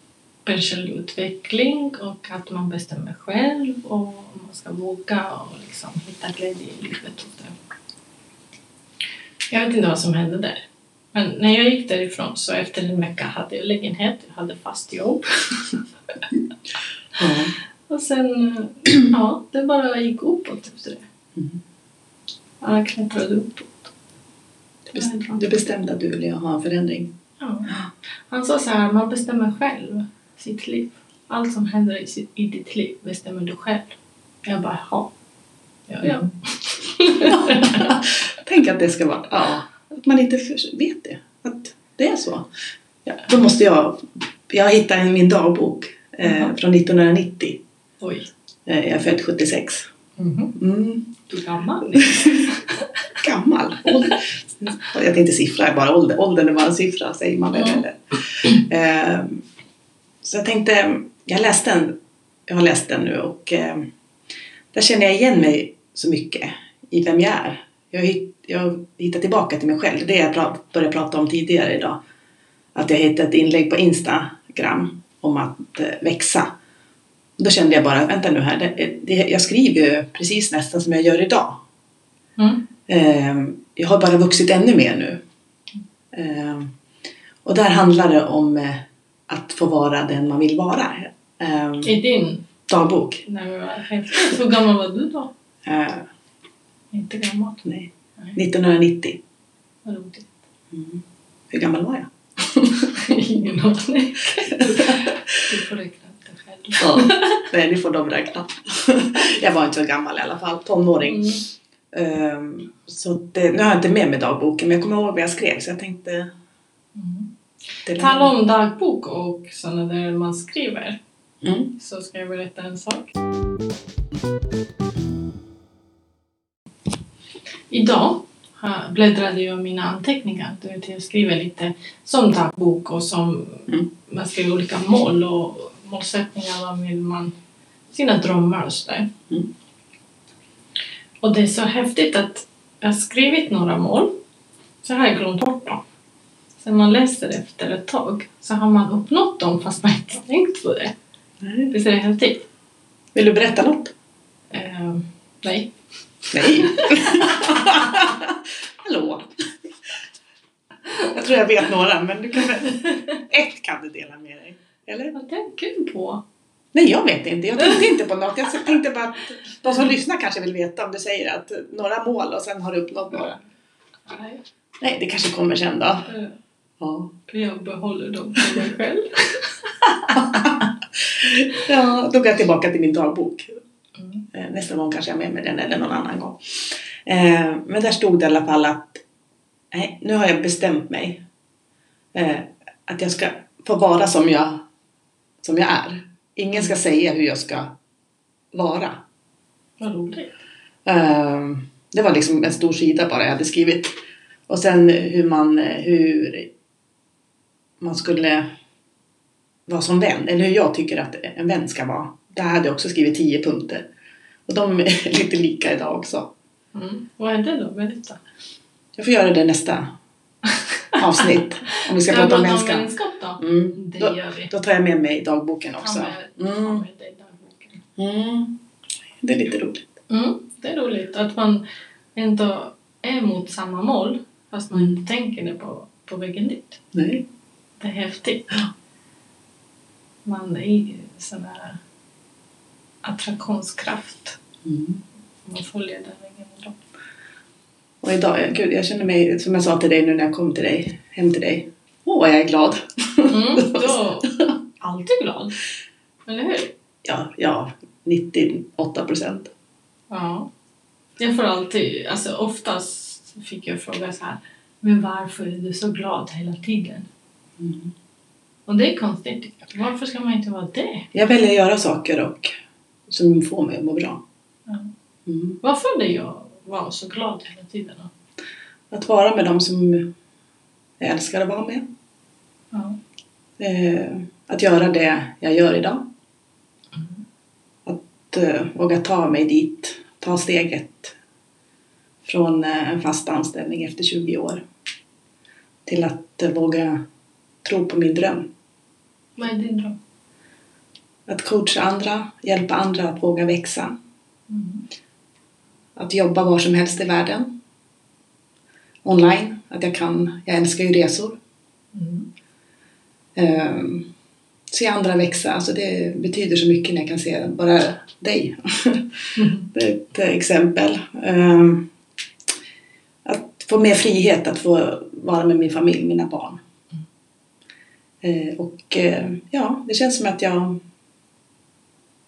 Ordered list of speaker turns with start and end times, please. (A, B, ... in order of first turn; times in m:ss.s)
0:00.4-0:07.5 A
0:09.5-0:15.8 A
0:17.2-0:17.5 B
0:17.9-0:21.1 A
0:22.6-0:23.9 A
0:24.9-0:27.2 B
0:25.0-0:25.4 A
0:27.4-0:27.8 A
0:28.3-0:35.1 A
0:35.9-0:38.0 A
0:37.2-0:42.5 B
0:43.0-0:47.6 B
0:46.2-0:46.5 A
0:48.0-0:48.3 A
0:48.7-0:49.9 B
0:50.2-0:50.6 A
0:50.5-0:51.2 B
0:51.3-0:52.7 A
0:52.0-0:52.5 B
0:53.2-0:59.4 B
0:57.5-0:57.8 A
1:00.2-1:03.9 B
1:04.7-1:12.0 B
1:12.8-1:16.6 B
1:17.4-1:21.6 B
1:22.4-1:22.6 A
1:22.9-1:25.2 B
1:26.1-1:26.7 B
1:27.4-1:32.0 B
1:31.8-1:32.5 A
1:32.7-1:33.2 B
1:33.2-1:35.3 A
1:35.6-1:36.1 B
1:36.9-1:37.6 A
1:37.6-1:39.2 B
1:39.8-1:40.4 A
1:40.7-1:43.0 B
1:43.0-1:47.5 A
1:44.5-1:45.2 B
1:46.8-1:51.4 B
1:51.0-1:51.4 A
1:51.9-1:56.3 B
1:57.0-2:01.0 A
1:57.9-1:58.3 B
2:01.4-2:01.7 B
2:01.8-2:03.1 A
2:07.7-2:17.3 A
2:17.9-2:19.1 A
2:21.2-2:24.2 A
2:24.8-2:25.8 A
2:26.6-2:31.0 A
2:31.4-2:31.7 B
2:31.7-2:32.5 A
2:33.1-2:33.9 B
2:34.5-2:35.7 A
2:36.3-2:37.3 A
2:36.3-2:39.7 B
2:41.0-2:45.1 B
2:45.1-2:46.2 A
2:46.7-2:53.4 B
2:54.1-2:54.4 A
2:54.8-2:56.1 B
2:56.1-2:56.4 A
2:56.8-2:57.1 B
2:57.3-2:59.6 A
3:00.1-3:03.6 B
3:04.0-3:04.2 A
3:04.3-3:06.4 B
3:07.0-3:09.0 B
3:09.7-3:11.2 B
3:12.1-3:14.6 B
3:15.4-3:17.8 B
3:18.5-3:19.0 B
3:19.8-3:20.4 A
3:20.8-3:23.9 B
3:24.5-3:26.5 B
3:27.8-3:28.5 B
3:29.7-3:33.9 B
3:34.5-3:36.3 B
3:36.7-3:38.2 A
3:39.0-3:40.0 B
3:41.0-3:42.9 B
3:41.2-3:44.5 A
3:43.4-3:46.8 B
3:45.8-3:47.8 A
3:48.0-3:48.6 B
3:49.2-3:49.9 B
3:50.1-3:56.8 A
3:56.9-3:57.3 B
3:57.8-3:58.6 A
4:00.2-4:01.8 A
4:03.0-4:04.4 A
4:04.6-4:05.0 B
4:05.5-4:06.8 A
4:08.0-4:14.0 B
4:13.3-4:15.6 A
4:16.3-4:16.7 A
4:17.0-4:19.5 B
4:20.1-4:20.5 A
4:21.2-4:27.1 A
4:27.6-4:27.9 B
4:28.7-4:31.1 A
4:31.1-4:32.5 B
4:33.1-4:34.2 B
4:35.3-4:35.6 B
4:35.6-4:38.1 A
4:38.9-4:40.1 B
4:41.0-4:41.9 B
4:42.7-4:43.0 A
4:43.6-4:46.1 B
4:47.9-4:51.2 B
4:52.2-4:54.6 B
4:55.9-4:57.0 B
4:57.6-4:58.5 B
4:59.4-5:00.0 A
5:01.3-5:04.0 B
5:04.5-5:04.8 A
5:06.0-5:07.6 B
5:09.0-5:11.4 B
5:11.9-5:12.3 A
5:13.4-5:14.1 B
5:14.7-5:21.9 B
5:19.4-5:19.7 A
5:23.2-5:26.6 B
5:28.2-5:30.8 B